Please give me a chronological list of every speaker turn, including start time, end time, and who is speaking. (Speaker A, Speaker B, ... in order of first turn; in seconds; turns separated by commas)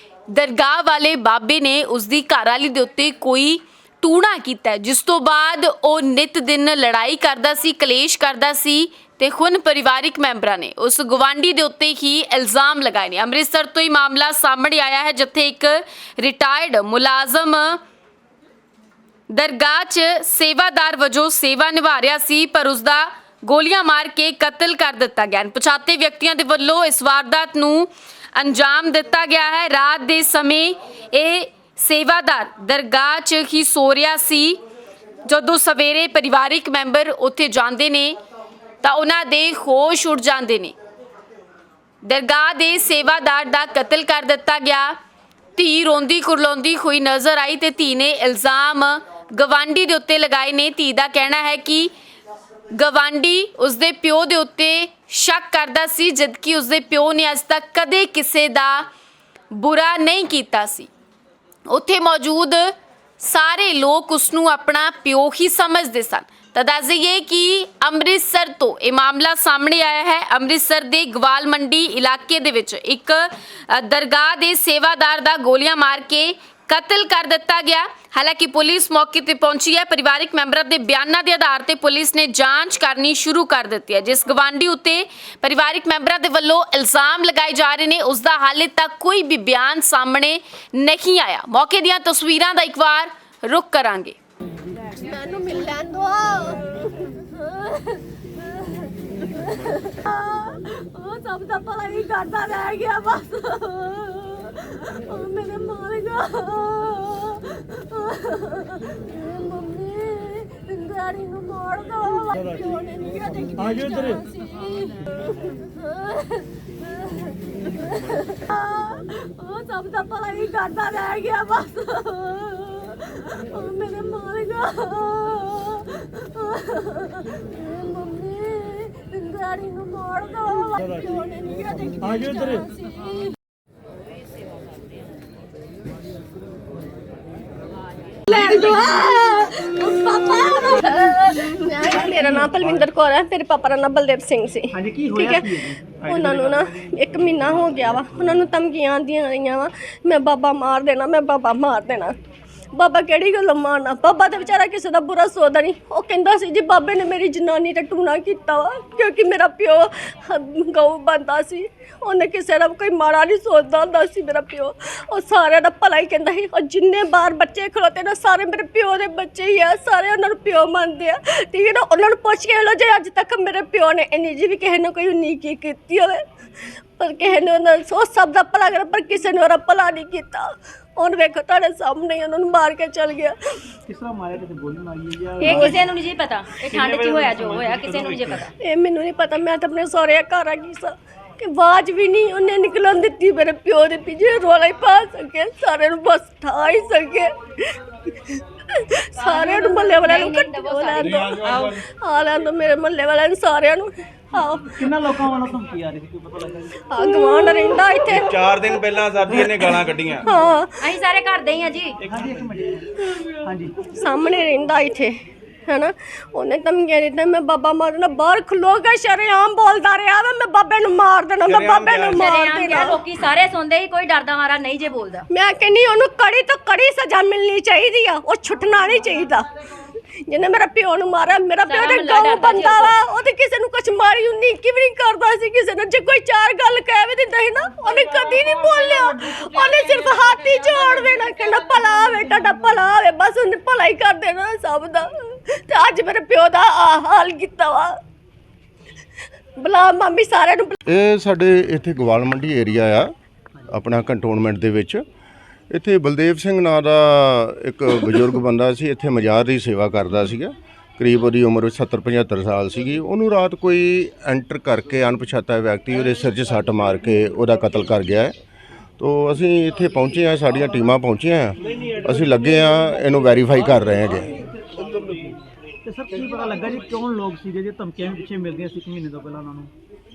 Speaker A: 0.3-17.8, Speaker A: 19.3-34.6, Speaker A: 35.3-38.2, Speaker A: 38.8-40.8, Speaker A: 42.0-45.0, Speaker A: 45.6-51.9, Speaker A: 52.7-58.9, Speaker A: 59.5-60.9, Speaker A: 61.7-94.2, Speaker B: 95.0-133.3, Speaker B: 138.3-145.5, Speaker C: 141.9-142.7, Speaker C: 144.7-148.2, Speaker B: 146.1-152.1, Speaker B: 152.8-176.2, Speaker B: 177.0-183.3, Speaker C: 183.9-185.9, Speaker D: 185.4-188.5, Speaker B: 185.4-185.8, Speaker E: 186.7-188.4, Speaker B: 188.6-197.3, Speaker B: 198.8-204.8, Speaker D: 199.2-201.4, Speaker E: 201.0-201.8, Speaker C: 204.7-206.8, Speaker B: 206.9-208.8, Speaker E: 208.1-210.3, Speaker B: 209.3-209.7, Speaker B: 210.2-210.9, Speaker D: 210.8-212.0, Speaker E: 212.0-212.4, Speaker C: 212.1-213.8, Speaker B: 213.9-215.2, Speaker B: 215.7-223.0, Speaker E: 221.5-222.3, Speaker D: 222.1-225.3, Speaker B: 225.3-229.5, Speaker B: 230.3-247.9, Speaker D: 231.7-233.0, Speaker B: 249.6-250.8, Speaker F: 250.9-253.1, Speaker F: 253.7-255.0, Speaker F: 255.7-268.4, Speaker F: 269.0-274.5, Speaker C: 274.6-279.7